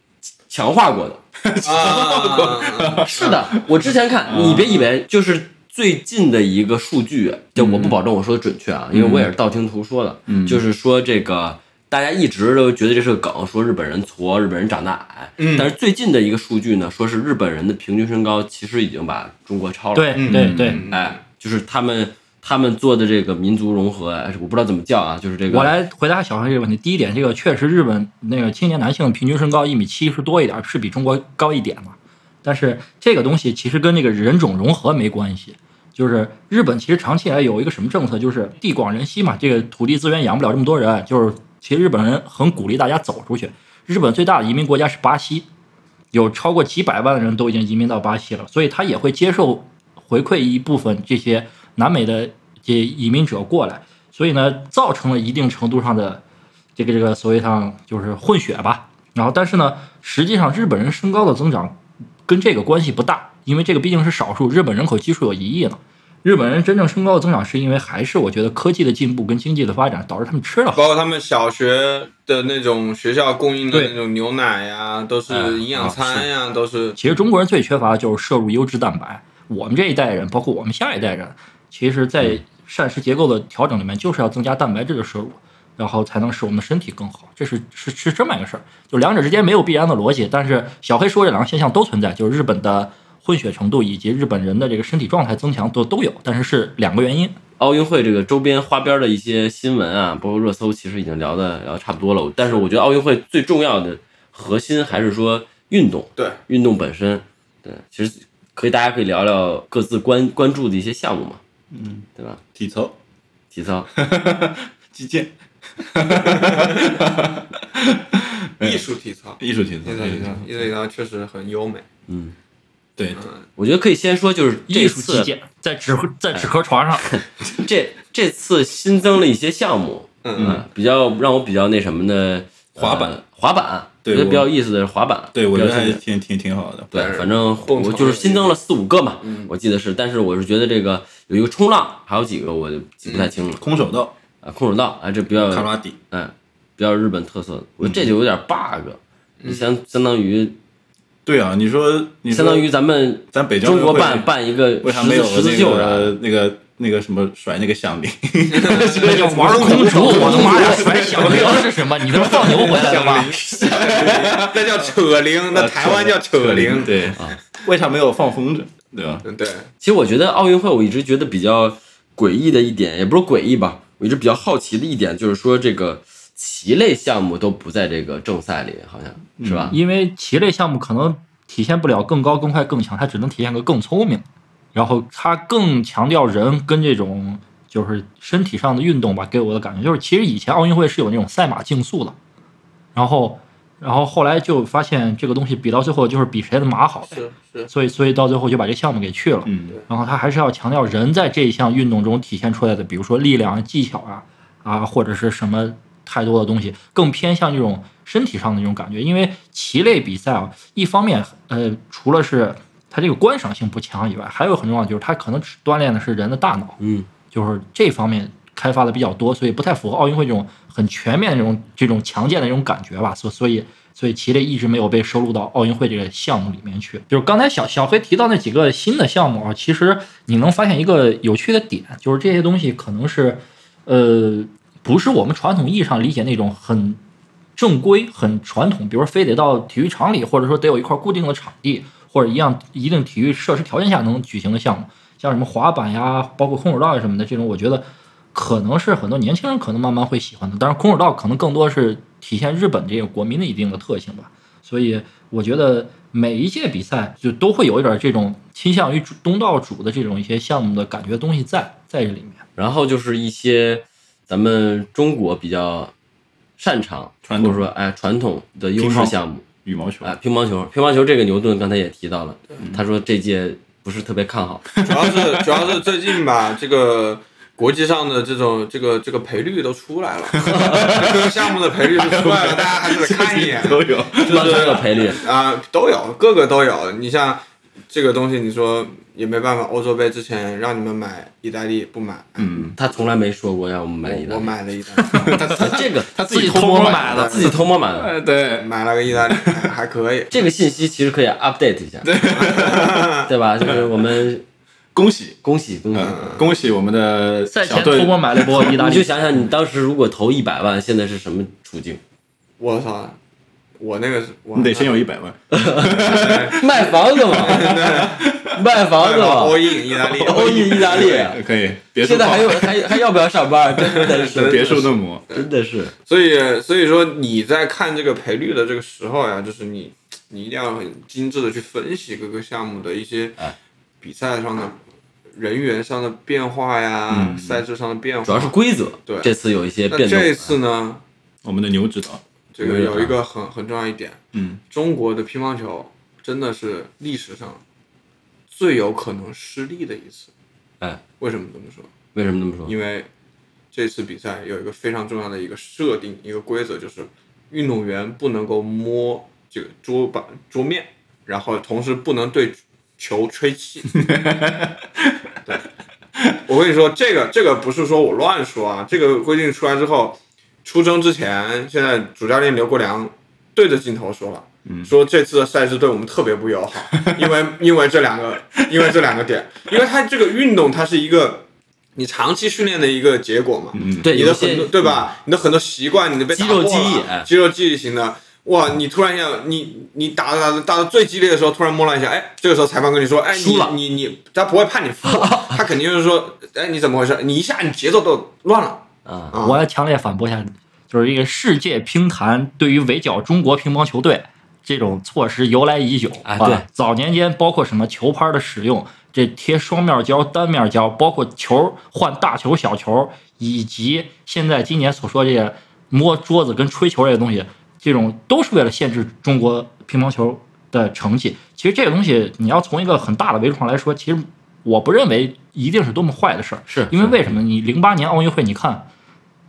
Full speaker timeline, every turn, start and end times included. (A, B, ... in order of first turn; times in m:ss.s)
0:00.5-0:01.2 A
0:01.4-0:04.9 B
0:01.6-0:03.4 C
0:03.1-0:20.2 A
0:07.6-0:08.0 B
0:08.9-0:09.3 B
0:10.3-0:10.6 B
0:15.4-0:15.7 C
0:20.0-0:20.8 D
0:20.2-0:21.2 C
0:20.2-0:20.9 B
0:20.9-0:25.7 A
0:25.5-0:45.5 D
0:46.1-0:56.2 D
0:56.8-1:10.9 D
1:10.7-1:17.0 C
1:15.3-1:15.6 A
1:17.0-1:37.4 D
1:37.6-1:51.4 A
1:51.7-1:53.0 B
1:52.2-1:52.4 A
1:53.5-1:53.9 A
1:54.0-1:58.8 B
1:58.6-2:01.9 C
1:59.4-2:00.4 B
2:02.1-2:02.4 A
2:03.0-2:03.2 B
2:03.1-2:03.4 C
2:03.6-2:05.3 A
2:04.7-2:07.1 D
2:07.0-2:16.0 A
2:10.2-2:10.6 C
2:10.4-2:10.6 B
2:12.8-2:13.2 B
2:14.0-2:14.5 B
2:15.3-2:16.9 B
2:16.9-2:23.6 A
2:16.9-2:18.6 C
2:19.2-2:19.5 C
2:23.1-2:23.3 C
2:23.5-2:24.1 B
2:24.4-2:30.6 A
2:25.4-2:26.0 B
2:27.8-2:28.1 B
2:29.4-2:29.7 C
2:31.3-2:32.7 B
2:32.3-2:36.2 A
2:33.3-2:34.3 B
2:34.8-2:41.6 B
2:38.5-2:41.6 C
2:38.8-2:43.4 D
2:39.5-2:41.6 A
2:42.2-2:47.1 C
2:43.6-2:44.8 B
2:43.7-2:44.0 A
2:45.5-2:49.2 B
2:49.2-2:49.7 C
2:49.8-2:59.8 A
2:59.4-2:59.8 B
2:59.7-3:12.2 D
3:13.0-3:36.8 D
3:17.1-3:17.7 C
3:19.4-3:19.8 B
3:36.8-3:37.1 A
3:37.3-3:57.0 D
3:57.6-4:22.4 D
4:22.6-4:25.9 A
4:26.6-4:29.5 A
4:27.2-4:27.7 B
4:28.8-4:30.2 B
4:30.0-4:34.7 A
4:34.8-4:36.0 B
4:34.8-4:52.7 C
4:40.4-4:44.9 B
4:40.5-4:41.1 A
4:44.2-4:45.2 A
4:52.4-4:52.8 B
4:52.8-4:54.5 A
4:54.0-4:55.7 C
4:55.1-4:58.7 B
4:55.1-4:55.4 D
4:55.5-4:56.1 A
4:56.2-4:57.5 D
4:57.0-4:57.6 C
4:57.1-4:58.1 A
4:58.6-5:00.4 C
4:59.3-4:59.6 B
5:00.3-5:02.1 A
5:02.0-5:03.8 B
5:02.3-5:03.3 C
5:03.2-5:04.4 A
5:04.9-5:05.4 B
5:05.4-5:06.3 A
5:05.9-5:08.8 B
5:06.0-5:06.5 C
5:07.5-5:09.1 D
5:08.6-5:12.0 A
5:12.6-5:13.2 C
5:13.8-5:15.0 C
5:14.6-5:18.6 B
5:15.5-5:17.8 A
5:16.0-5:18.4 C
5:18.5-5:21.4 A
5:18.9-5:21.4 C
5:20.0-5:23.0 B
5:22.0-5:25.9 A
5:23.8-5:25.5 C
5:24.0-5:25.2 B
5:26.0-5:33.4 C
5:34.0-5:34.8 C
5:35.3-5:38.6 C
5:37.1-5:37.6 B
5:38.3-5:40.6 A
5:39.1-5:39.3 C
5:39.9-5:41.0 C
5:41.4-5:42.2 B
5:42.5-5:47.6 C
5:42.6-5:43.2 A
5:44.4-5:44.6 B
5:48.5-5:50.3 C
5:51.2-5:51.9 C
5:52.2-5:52.7 A
5:52.7-5:53.1 C
5:53.7-6:04.0 C
6:04.0-6:05.1 B
6:06.4-6:21.4 C
6:17.0-6:17.3 B
6:22.0-6:39.6 C
6:23.7-6:24.1 B
6:24.0-6:24.8 A
6:26.3-6:27.3 A
6:33.3-6:33.8 A
6:35.0-6:35.6 A
6:39.1-6:39.3 A
6:39.4-7:08.9 D
6:46.2-6:46.6 A
7:06.7-7:07.4 A